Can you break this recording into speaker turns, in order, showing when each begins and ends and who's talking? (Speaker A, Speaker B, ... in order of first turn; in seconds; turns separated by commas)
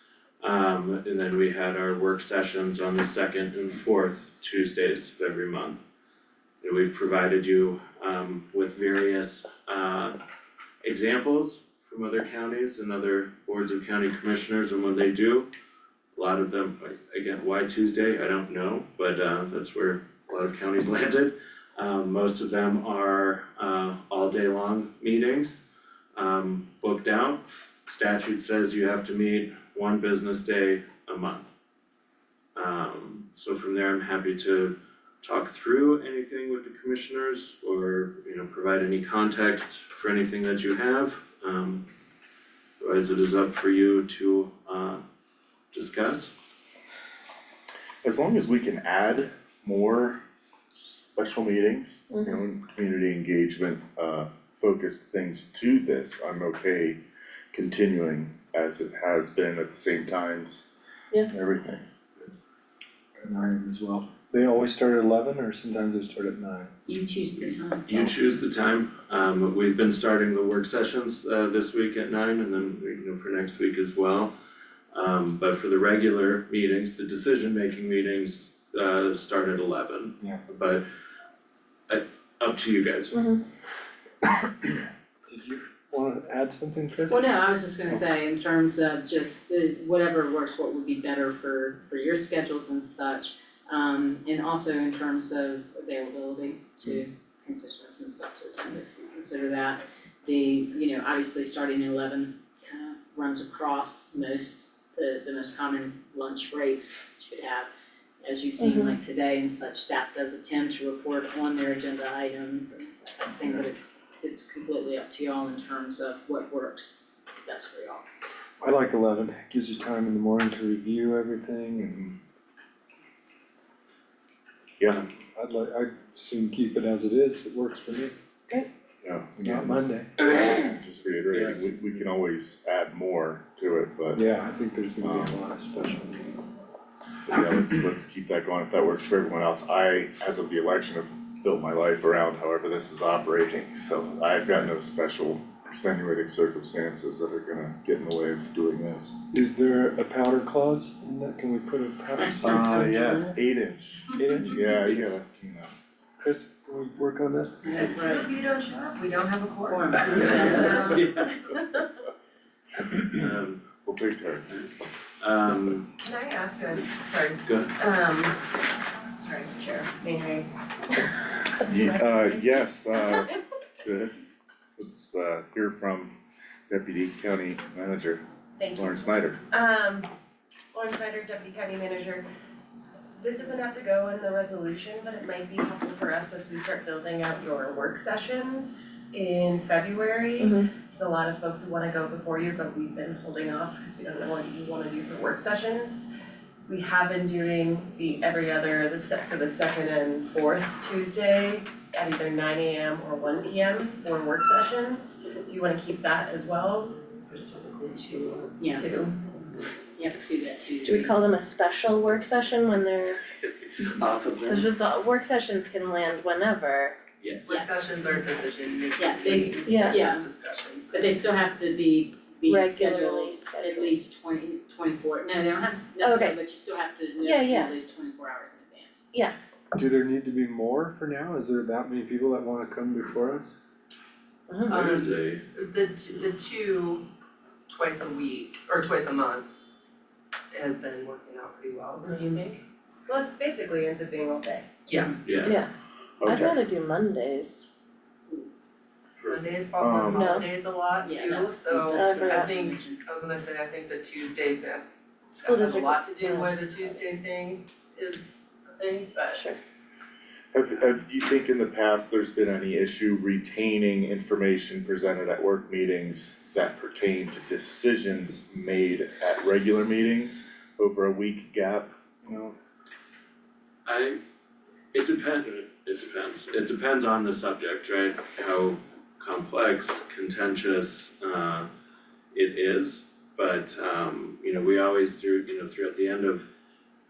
Speaker A: 0.4-5.8, Speaker A: 6.6-10.2, Speaker A: 10.8-15.5, Speaker A: 16.1-25.6, Speaker A: 26.1-31.5, Speaker A: 32.5-41.8, Speaker A: 42.8-45.0, Speaker A: 45.7-46.3, Speaker B: 48.0-50.2, Speaker B: 50.7-57.0, Speaker C: 52.1-52.4, Speaker B: 57.5-60.6, Speaker B: 61.3-61.8, Speaker D: 63.2-66.7, Speaker E: 66.8-68.2, Speaker A: 67.9-74.3, Speaker A: 74.9-80.8, Speaker A: 81.9-83.2, Speaker C: 83.1-83.4, Speaker D: 84.2-87.3, Speaker E: 87.1-107.7, Speaker E: 108.2-118.1, Speaker C: 108.6-108.9, Speaker D: 118.6-122.0, Speaker B: 121.8-122.1, Speaker B: 124.8-125.0, Speaker D: 125.3-128.1, Speaker B: 129.0-134.2, Speaker D: 129.4-130.1, Speaker A: 131.3-132.0, Speaker D: 134.1-136.4, Speaker B: 135.0-135.4, Speaker B: 137.3-149.1, Speaker D: 149.3-153.3, Speaker B: 152.4-155.7, Speaker D: 154.1-155.0, Speaker D: 156.2-157.6, Speaker E: 157.6-158.3, Speaker F: 157.7-161.1, Speaker E: 159.7-161.0, Speaker A: 160.1-161.4, Speaker A: 163.1-163.7, Speaker B: 163.8-164.6, Speaker A: 165.2-165.9, Speaker F: 166.0-168.6, Speaker A: 167.4-167.7, Speaker F: 169.2-173.3, Speaker B: 171.6-173.3, Speaker B: 173.8-174.2, Speaker B: 174.8-176.1, Speaker B: 176.7-178.2, Speaker F: 178.6-179.0, Speaker B: 178.7-179.4, Speaker F: 179.5-180.1, Speaker F: 180.7-182.2, Speaker F: 183.2-196.1, Speaker C: 190.4-190.7, Speaker F: 196.7-209.2, Speaker E: 208.6-208.9, Speaker E: 210.0-211.2, Speaker C: 210.8-213.2, Speaker A: 213.8-214.7, Speaker C: 214.4-217.0, Speaker A: 217.2-217.7, Speaker E: 217.5-218.2, Speaker G: 217.6-220.8, Speaker E: 218.9-220.3, Speaker C: 219.6-220.1, Speaker E: 220.9-229.1, Speaker C: 222.5-223.9, Speaker C: 226.0-226.4, Speaker C: 227.2-227.7, Speaker D: 229.7-233.6, Speaker C: 234.5-234.9, Speaker A: 234.7-235.4, Speaker G: 235.6-237.0, Speaker G: 237.7-239.4, Speaker G: 240.5-241.9, Speaker C: 242.0-242.4, Speaker F: 242.1-242.5, Speaker F: 243.1-244.7, Speaker A: 245.2-245.6, Speaker C: 245.4-245.7, Speaker B: 246.2-246.6, Speaker C: 246.2-247.7, Speaker A: 249.2-249.5, Speaker G: 249.3-254.8, Speaker B: 249.8-250.4, Speaker C: 250.1-250.5, Speaker E: 250.9-253.0, Speaker C: 251.8-252.6, Speaker G: 255.3-259.2, Speaker C: 255.4-257.2, Speaker C: 259.3-259.6, Speaker B: 260.5-272.5, Speaker A: 273.9-274.2, Speaker A: 274.9-281.7, Speaker A: 282.3-286.4